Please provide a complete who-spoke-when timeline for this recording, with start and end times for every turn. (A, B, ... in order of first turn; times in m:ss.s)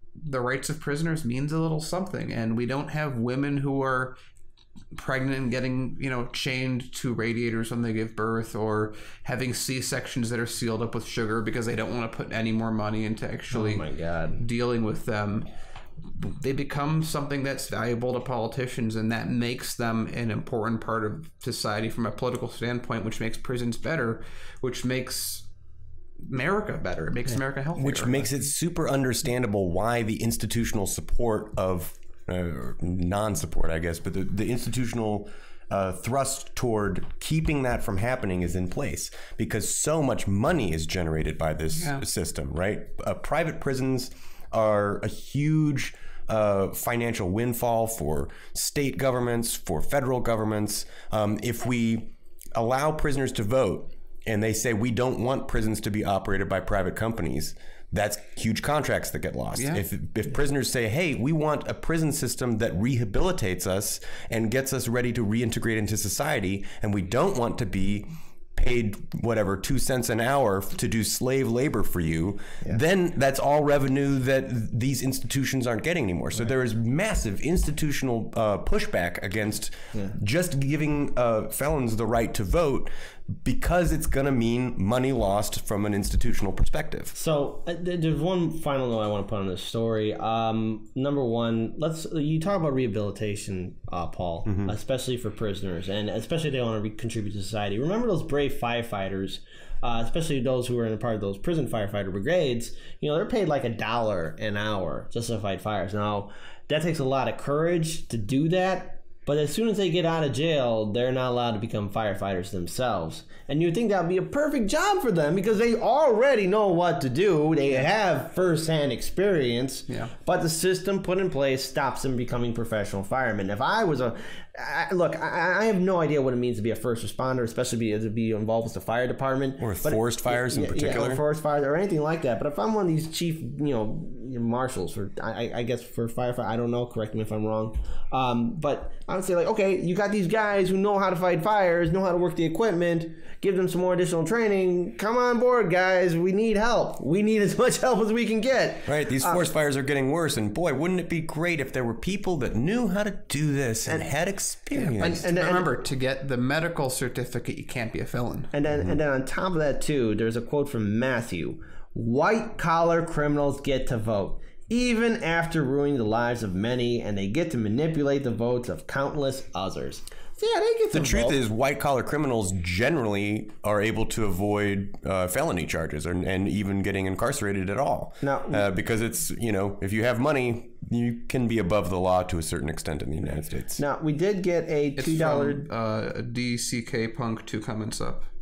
0:00.2-0:04.2 A
0:04.9-0:15.5 A
0:13.5-0:14.4 B
0:16.0-0:25.5 A
0:26.2-0:28.2 A
0:27.8-1:27.1 C
0:41.7-0:42.0 A
0:59.6-0:59.8 A
1:27.1-2:29.4 B
1:34.4-1:34.7 C
2:09.6-2:11.2 C
2:28.8-2:35.3 C
2:33.8-2:34.1 B
2:34.7-2:38.5 A
2:34.9-2:35.7 B
2:38.5-2:51.4 B
2:50.9-3:03.8 C
2:58.2-2:58.7 B
3:03.8-3:05.7 B
3:05.0-3:08.3 A